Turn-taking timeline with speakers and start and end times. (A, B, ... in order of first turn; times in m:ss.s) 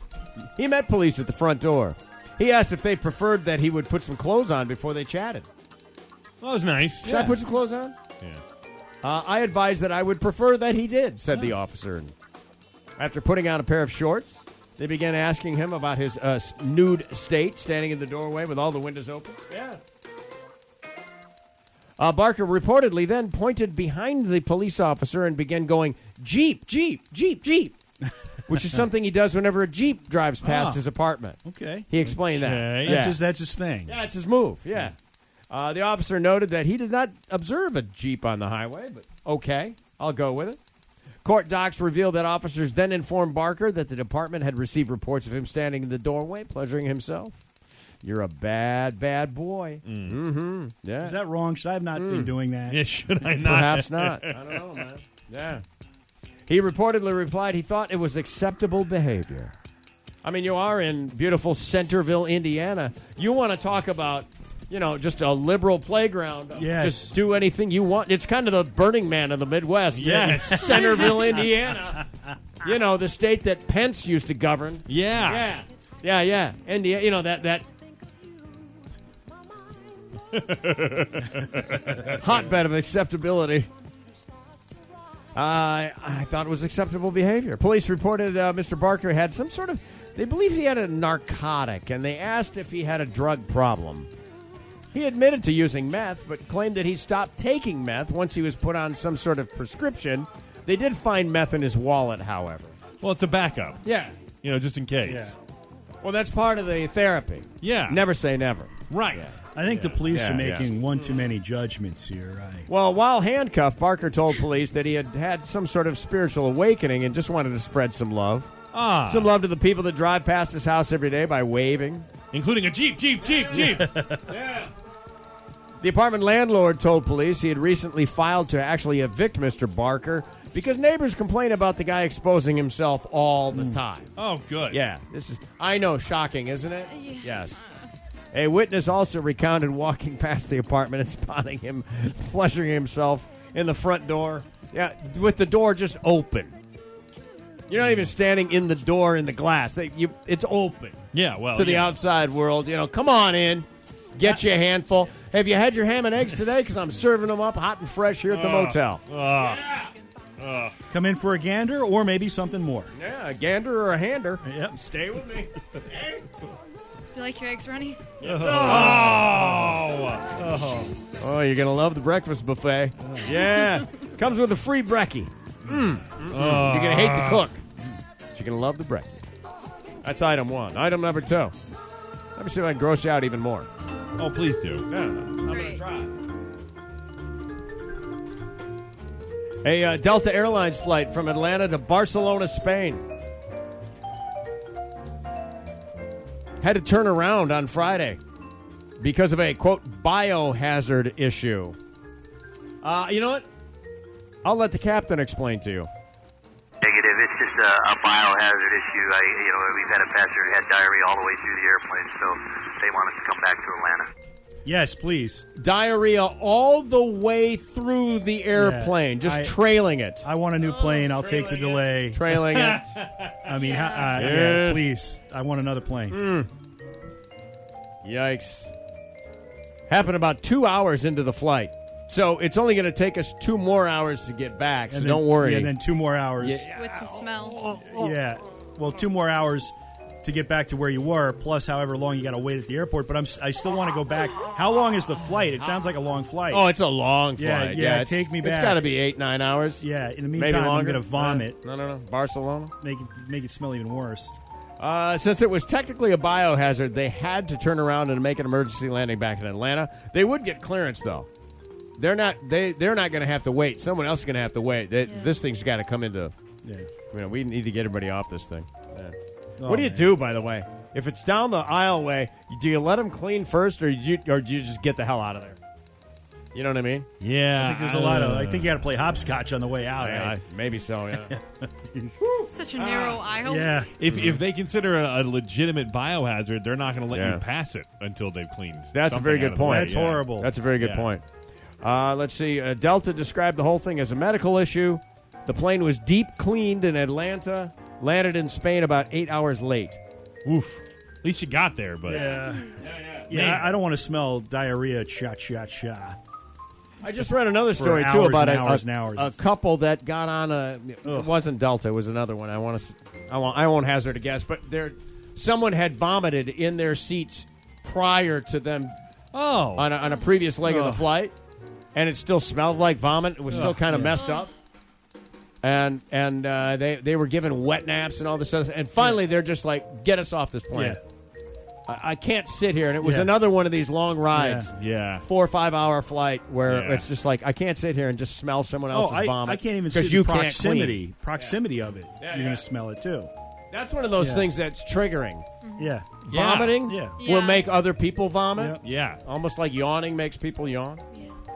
0:00.6-0:05.5 A
0:06.4-0:07.4 B
0:07.0-0:08.0 A
0:09.0-0:12.1 A
0:13.0-0:19.8 A
0:22.0-0:27.8 A
0:28.5-0:33.2 A
0:30.4-0:30.8 C
0:31.4-0:32.1 C
0:32.1-0:33.0 B
0:32.8-0:34.0 C
0:33.9-0:35.0 A
0:35.5-0:40.6 A
0:41.2-0:47.4 A
0:48.0-0:51.2 A
0:49.8-0:50.2 B
0:51.0-0:52.8 C
0:52.0-0:52.3 A
0:52.7-0:54.6 B
0:53.4-0:55.6 A
0:56.5-0:59.6 A
1:00.2-1:12.1 A
1:06.6-1:07.2 C
1:09.9-1:11.2 B
1:10.0-1:11.4 C
1:12.6-1:17.7 A
1:14.9-1:15.5 B
1:20.3-1:22.2 B
1:22.1-1:23.7 A
1:25.4-1:34.1 A
1:34.9-1:42.8 A
1:43.0-1:43.8 B
1:43.8-1:44.2 A
1:44.4-1:45.4 B
1:45.0-1:45.4 C
1:46.0-1:49.4 A
1:47.6-1:48.1 B
1:48.9-1:50.0 B
1:49.5-1:52.7 C
1:50.1-1:50.7 A
1:52.7-1:58.5 A
1:58.7-1:59.3 B
1:59.0-2:02.1 A
2:02.3-2:04.0 B
2:03.2-2:04.7 A
2:03.7-2:04.2 C
2:05.8-2:14.1 A
2:14.2-2:14.8 B
2:14.7-2:17.6 A
2:16.9-2:17.8 D
2:18.3-2:26.6 A
2:27.7-2:31.0 A
2:31.1-2:32.0 B
2:31.6-2:39.5 A
2:38.3-2:40.7 B
2:40.9-2:42.9 C
2:42.9-2:46.2 A
2:44.4-2:44.8 C
2:47.1-2:48.2 D
2:48.2-2:49.4 C
2:48.2-2:49.3 A
2:48.3-2:50.9 B
2:51.2-2:57.6 A
2:56.3-2:57.5 B
2:58.3-2:59.2 A
3:00.0-3:01.6 A
3:02.4-3:03.7 A
3:04.2-3:04.8 B
3:04.9-3:06.1 A
3:05.5-3:05.8 D
3:09.6-3:13.0 A
3:16.6-3:18.2 A
3:19.0-3:21.8 A
3:22.8-3:23.5 A
3:24.4-3:25.9 A
3:26.8-3:34.1 E
3:34.6-3:35.4 C
3:35.6-3:40.3 A
3:38.5-3:39.6 C
3:40.2-3:42.2 C
3:41.1-3:42.9 A
3:42.3-3:43.5 B
3:43.4-3:46.2 C
3:43.6-3:44.0 D
3:44.1-3:44.8 A
3:46.1-3:46.5 A
3:48.0-3:48.7 A
3:49.9-3:55.8 A
3:54.9-3:56.6 C
3:56.4-3:58.1 A
3:56.7-3:57.7 D
3:58.0-4:06.7 C
4:06.5-4:12.7 A
4:07.4-4:08.9 C
4:09.8-4:11.6 C
4:12.8-4:14.3 C
4:14.8-4:21.3 A
4:22.0-4:26.3 A
4:25.0-4:25.4 D
4:26.6-4:26.9 C
4:27.1-4:35.6 A
4:29.6-4:30.1 C
4:36.5-4:37.1 A
4:37.2-4:38.8 B
4:37.6-4:40.4 C
4:40.0-4:41.4 A
4:41.1-4:42.2 C
4:42.2-4:43.2 A
4:42.5-4:43.9 D
4:43.4-4:43.9 C
4:44.0-4:50.2 B
4:44.1-4:44.4 A
4:47.1-4:47.4 A
4:48.9-4:51.2 A
4:49.6-4:50.5 C
4:50.8-4:51.1 B
4:51.8-5:00.0 A
5:00.4-5:02.4 B
5:02.0-5:02.7 C
5:02.8-5:03.3 A
5:03.3-5:06.2 C
5:03.3-5:03.7 B
5:07.0-5:19.0 A
5:07.8-5:09.4 C
5:11.0-5:11.3 C
5:19.3-5:19.9 B
5:19.8-5:21.4 A
5:20.6-5:21.1 C
5:22.0-5:24.5 A
5:23.5-5:24.2 C
5:25.6-5:31.0 A
5:30.7-5:31.0 C
5:31.9-5:41.6 A
5:33.0-5:33.3 C
5:34.3-5:34.7 C
5:34.8-5:35.2 B
5:36.6-5:37.1 B
5:38.9-5:43.3 C
5:42.2-5:42.6 A
5:43.7-5:45.4 A
5:44.2-5:44.5 C
5:45.8-5:46.1 C
5:46.2-5:51.0 A
5:46.3-5:46.9 B
5:46.9-5:47.2 C
5:47.2-5:47.7 D
5:48.6-5:48.8 C
5:48.8-5:49.2 B